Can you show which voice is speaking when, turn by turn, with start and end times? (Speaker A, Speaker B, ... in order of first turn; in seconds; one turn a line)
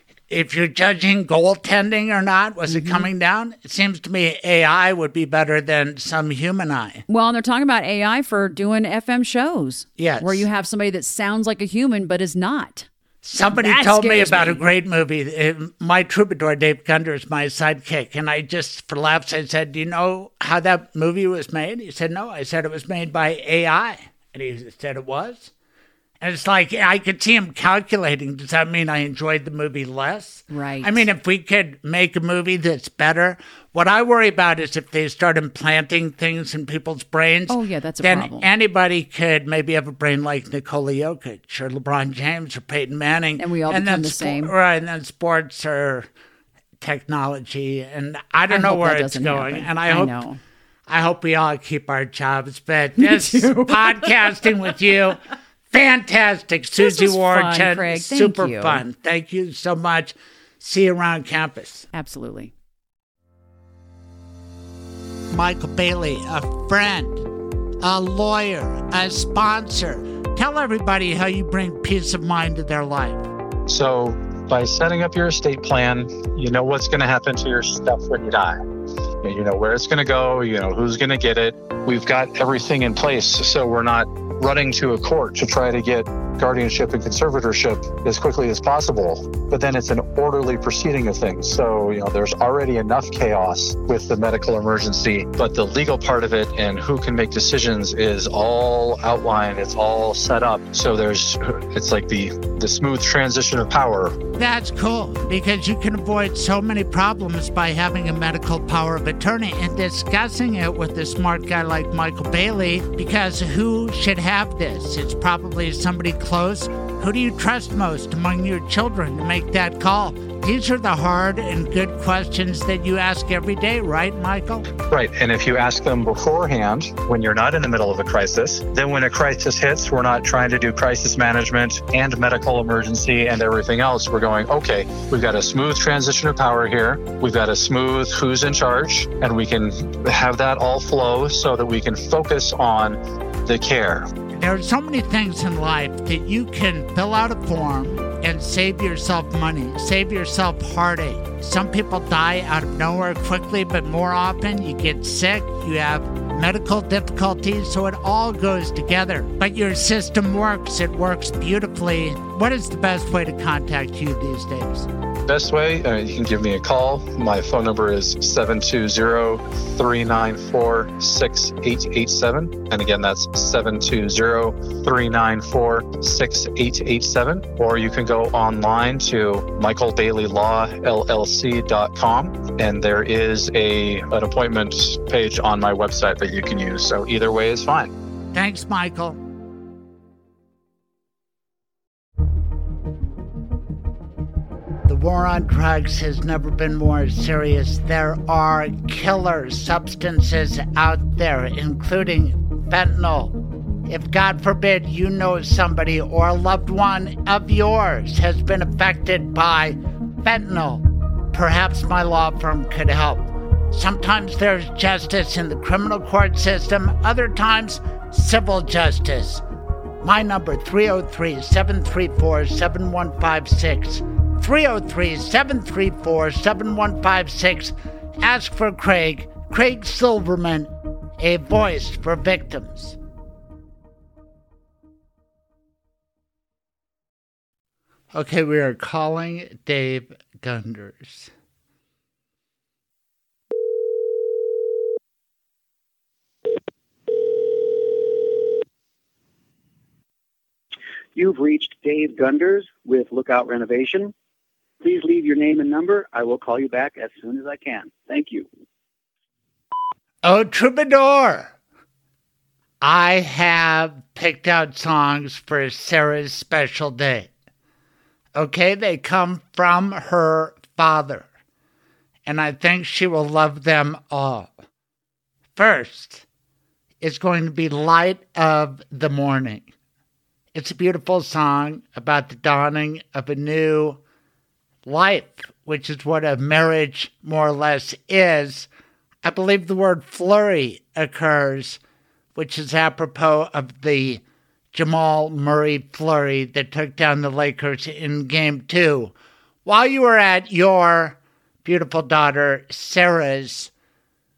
Speaker A: 0.3-7.0
Speaker B: 2.7-3.1
Speaker B: 7.1-12.9
Speaker A: 10.0-10.4
Speaker A: 13.2-25.5
Speaker B: 13.5-14.6
Speaker A: 26.2-46.1
Speaker B: 30.5-31.1
Speaker B: 37.5-38.5
Speaker B: 43.4-44.5
Speaker A: 46.8-50.2
Speaker B: 48.5-50.4
Speaker A: 50.9-55.2
Speaker B: 53.0-54.3
Speaker A: 55.7-61.9
Speaker B: 56.8-58.8
Speaker B: 61.9-62.5
Speaker A: 65.3-67.3
Speaker A: 67.8-73.3
Speaker C: 73.7-78.6
Speaker C: 79.2-104.2
Speaker A: 104.3-124.7
Speaker C: 124.9-144.1
Speaker A: 144.3-164.9
Speaker C: 165.3-187.9
Speaker A: 188.3-189.2
Speaker A: 194.9-203.3
Speaker A: 203.9-219.4
Speaker A: 220.0-233.0
Speaker A: 238.1-241.3
Speaker D: 251.2-254.1
Speaker D: 254.8-258.5
Speaker A: 260.2-261.6
Speaker A: 262.8-267.3
Speaker A: 268.3-271.3
Speaker A: 272.3-274.6
Speaker A: 275.6-276.2
Speaker A: 277.0-279.7
Speaker A: 280.5-284.0
Speaker A: 284.9-288.7
Speaker A: 289.2-291.8
Speaker A: 292.4-294.2
Speaker A: 294.7-299.1
Speaker A: 299.6-303.7